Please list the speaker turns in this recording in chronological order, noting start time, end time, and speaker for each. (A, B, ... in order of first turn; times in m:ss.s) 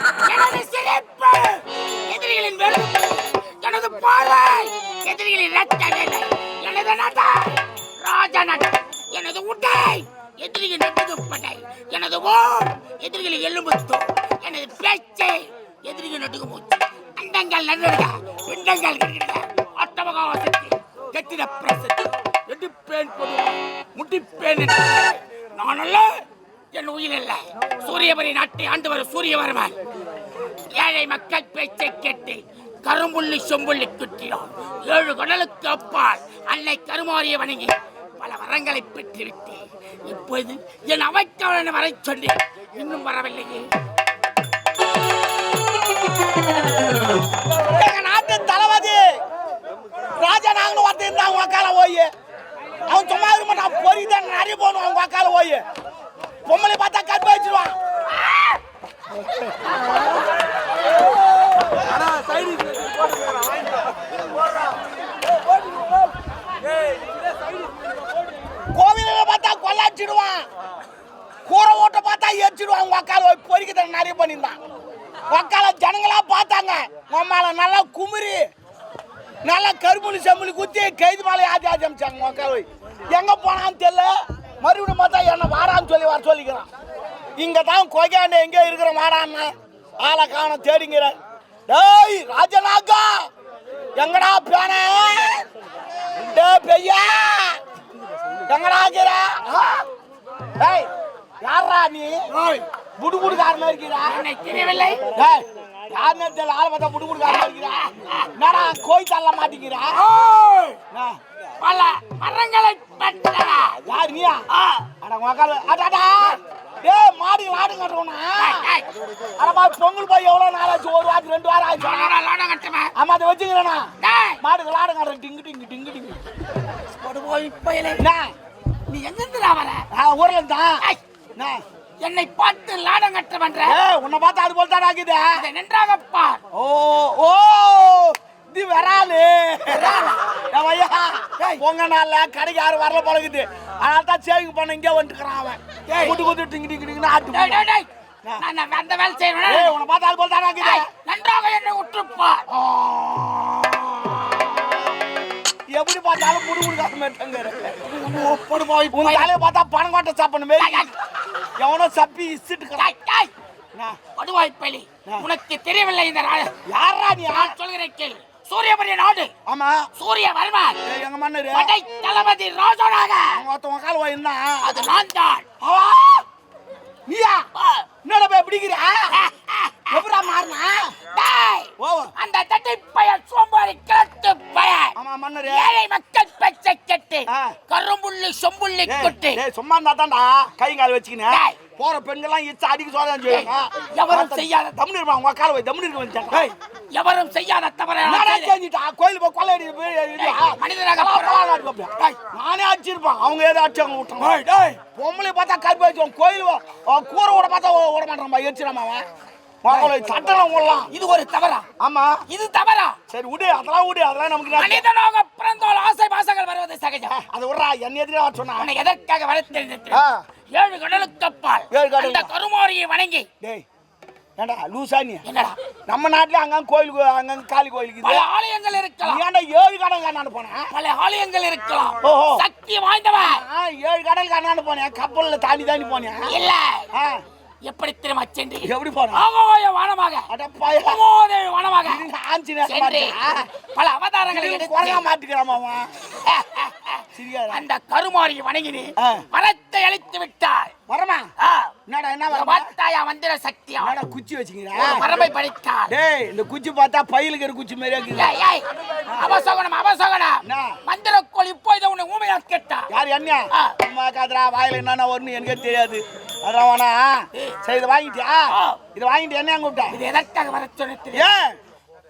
0:00.2-0:29.8 A
0:30.7-0:43.7 A
0:47.7-0:49.0 B
0:50.2-0:52.1 B
0:52.9-0:55.6 B
0:56.4-0:57.8 B
1:08.7-1:10.5 B
1:11.5-1:14.6 B
1:15.3-1:18.4 B
1:19.4-1:26.7 B
1:27.4-1:31.1 B
1:31.7-1:33.3 B
1:34.0-1:35.4 B
1:36.1-1:37.6 B
1:38.4-1:39.8 B
1:40.6-1:40.9 B
1:41.4-1:42.2 B
1:42.3-1:42.6 A
1:43.0-1:44.2 B
1:44.0-1:45.0 A
1:45.1-1:50.0 B
1:47.3-1:48.3 A
1:49.9-1:50.8 A
1:50.9-1:51.2 B
1:51.6-1:53.8 A
1:53.8-1:58.7 B
1:54.5-1:54.8 A
1:58.4-1:58.9 A
1:59.4-2:02.1 B
2:01.8-2:02.9 A
2:03.0-2:03.9 B
2:04.0-2:04.4 A
2:04.4-2:06.2 B
2:07.0-2:08.0 A
2:08.0-2:08.3 B
2:08.9-2:09.8 A
2:09.9-2:10.8 B
2:11.4-2:11.6 B
2:12.0-2:13.8 A
2:13.6-2:15.4 B
2:15.4-2:16.4 A
2:16.5-2:27.6 B
2:19.7-2:20.3 A
2:25.9-2:26.2 A
2:27.3-2:27.9 A
2:28.4-2:29.7 A
2:29.4-2:30.9 B
2:30.6-2:32.6 A
2:32.6-2:33.6 B
2:35.7-2:37.8 B
2:37.9-2:39.3 A
2:38.9-2:40.9 B
2:40.6-2:40.9 A
2:41.6-2:42.9 B
2:42.8-2:43.3 A
2:44.2-2:46.5 A
2:46.7-2:47.5 B
2:47.3-2:49.3 A
2:49.4-2:49.8 B
2:50.0-2:50.8 A
2:50.8-2:51.7 B
2:51.5-2:53.4 A
2:53.3-2:54.9 B
2:54.6-2:55.4 A
2:55.6-2:56.2 B
2:57.1-2:57.4 B
2:57.6-2:57.8 A
2:58.0-2:59.2 B
2:59.1-3:00.0 A
2:59.9-3:00.9 B
3:01.1-3:04.9 A
3:01.8-3:02.1 B
3:05.0-3:05.7 B
3:05.4-3:09.4 A
3:07.3-3:07.6 B
3:08.8-3:16.5 B
3:11.3-3:11.6 A
3:13.2-3:14.7 A
3:16.9-3:18.5 A
3:18.0-3:29.0 B
3:20.2-3:21.4 A
3:24.2-3:24.8 A
3:29.6-3:30.9 B
3:30.9-3:31.7 A
3:31.8-3:32.2 B
3:32.3-3:33.0 A
3:33.1-3:34.8 B
3:34.5-3:37.2 A
3:37.1-3:38.7 B
3:38.6-3:43.3 A
3:39.9-3:40.2 B
3:41.7-3:42.3 B
3:44.4-3:45.2 B
3:45.2-3:45.6 A
3:45.9-3:48.3 B
3:48.0-3:49.2 A
3:49.0-3:50.7 B
3:50.7-3:53.4 A
3:52.0-3:52.4 B
3:53.2-3:56.3 B
3:56.3-3:56.8 A
3:56.9-3:57.2 B
3:57.6-4:02.0 A
3:58.6-3:59.2 B
4:00.3-4:01.0 B
4:01.8-4:03.4 B
4:02.6-4:05.0 A
4:04.3-4:05.9 B
4:06.2-4:10.7 A
4:07.1-4:07.6 B
4:09.0-4:09.2 B
4:10.9-4:11.3 B
4:11.4-4:11.7 A
4:11.9-4:12.7 B
4:12.3-4:13.9 A
4:13.8-4:15.1 B
4:14.7-4:15.9 A
4:15.9-4:18.3 B
4:18.1-4:22.9 A
4:19.1-4:19.4 B
4:20.4-4:20.8 B
4:22.9-4:30.0 B
4:23.5-4:23.8 A
4:28.5-4:28.8 A
4:29.9-4:31.3 A
4:31.1-4:31.6 B